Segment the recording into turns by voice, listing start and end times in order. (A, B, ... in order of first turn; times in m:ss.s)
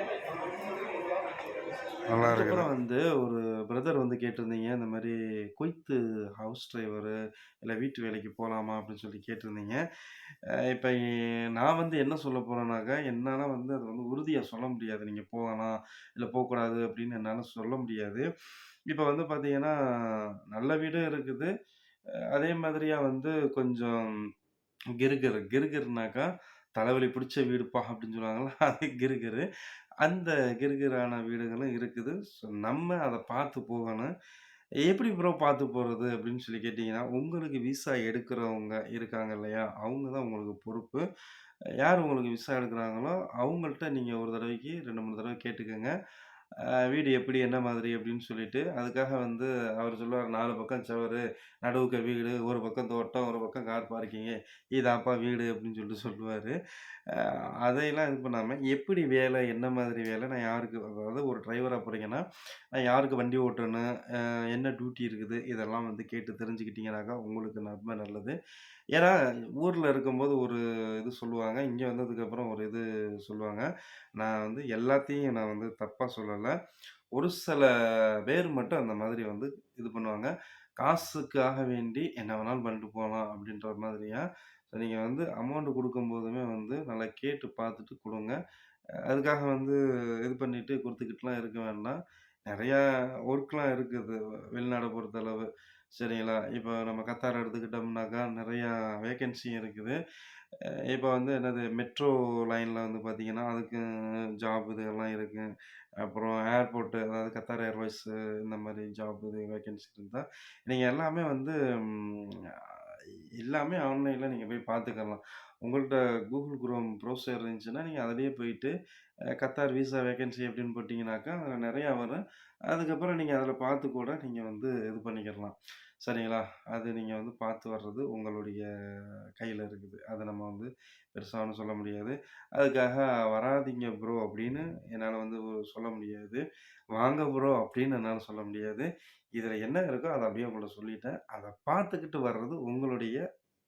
0:02.1-0:09.8 A
0:10.5-0:18.3 A
0:18.9-0:21.5 A
0:22.3-0:24.2 A
0:25.0-0:29.5 A
0:30.0-0:34.1 A
0:34.8-0:41.0 A
0:41.8-0:45.9 A
0:46.6-0:56.6 A
0:57.1-1:08.4 A
1:09.0-1:16.5 A
1:17.1-1:28.4 A
1:29.1-1:40.0 A
1:40.6-1:45.5 A
1:46.0-1:52.4 A
1:53.4-1:58.7 A
1:59.4-2:08.6 A
2:09.4-2:16.4 A
2:17.0-2:23.2 A